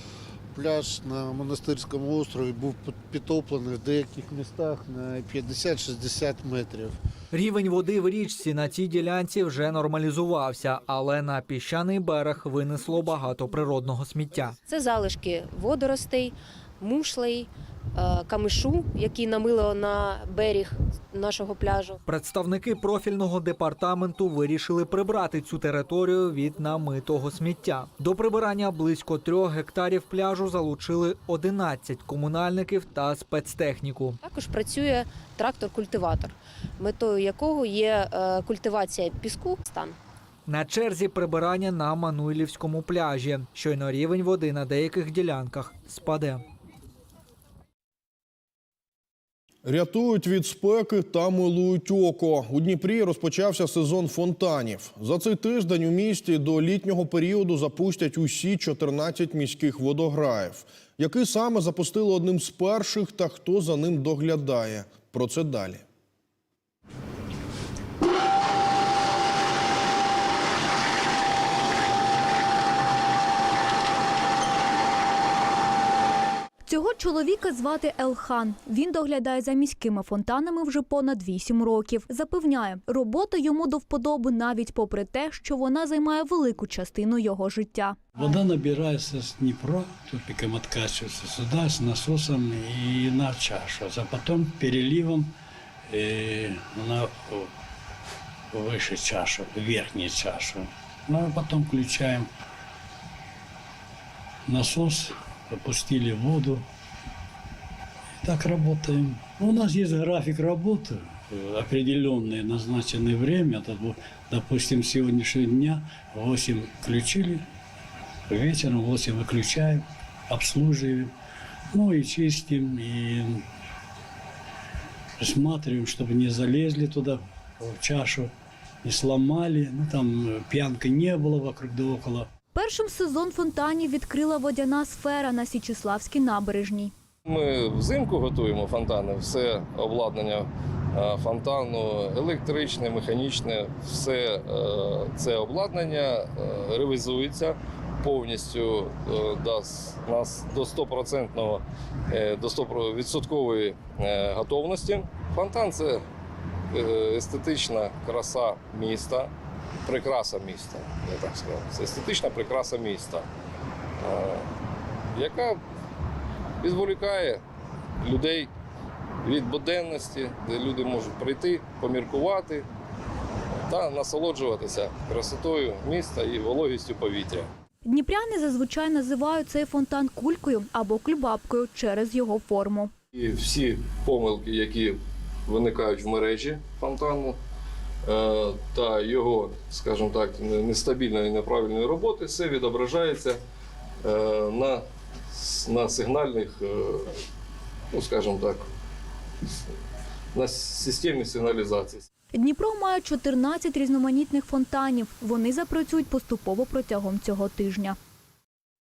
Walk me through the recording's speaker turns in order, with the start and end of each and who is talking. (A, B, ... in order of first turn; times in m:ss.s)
0:00.5-0:06.9 A
0:07.3-0:14.6 B
0:14.7-0:22.0 C
0:22.0-0:34.2 B
0:34.2-0:40.0 C
0:40.5-0:46.4 B
0:49.6-1:05.8 D
1:16.7-1:18.4 E
1:16.7-1:17.7 B
1:18.2-1:23.1 B
1:19.4-1:22.1 E
1:23.0-1:25.3 E
1:23.9-1:24.5 B
1:25.3-1:26.0 B
1:25.9-1:27.4 E
1:26.6-1:27.9 B
1:28.1-1:35.3 F
1:35.9-1:37.5 F
1:38.5-1:42.3 F
1:44.5-1:46.6 F
1:48.2-1:57.4 F
1:58.3-2:01.1 F
2:01.7-2:03.4 F
2:05.2-2:08.3 F
2:08.8-2:12.3 F
2:12.6-2:16.8 E
2:13.1-2:16.9 B
2:17.2-2:36.0 G
2:36.7-2:39.3 G
2:39.8-2:43.2 G
2:44.0-2:44.4 G
2:45.1-2:45.6 G
2:46.6-2:47.4 G
2:48.0-2:48.5 G
2:49.2-2:52.6 G
2:53.7-2:57.5 G
2:57.9-3:00.3 E
2:58.3-3:02.9 B
3:01.1-3:02.8 E
3:03.1-3:07.4 G
3:08.0-3:13.4 G
3:14.0-3:17.2 G
3:17.9-3:18.7 G
3:20.3-3:22.0 G
3:22.4-3:27.9 E
3:23.0-3:23.4 B
3:24.0-3:24.3 B
3:25.1-3:27.4 B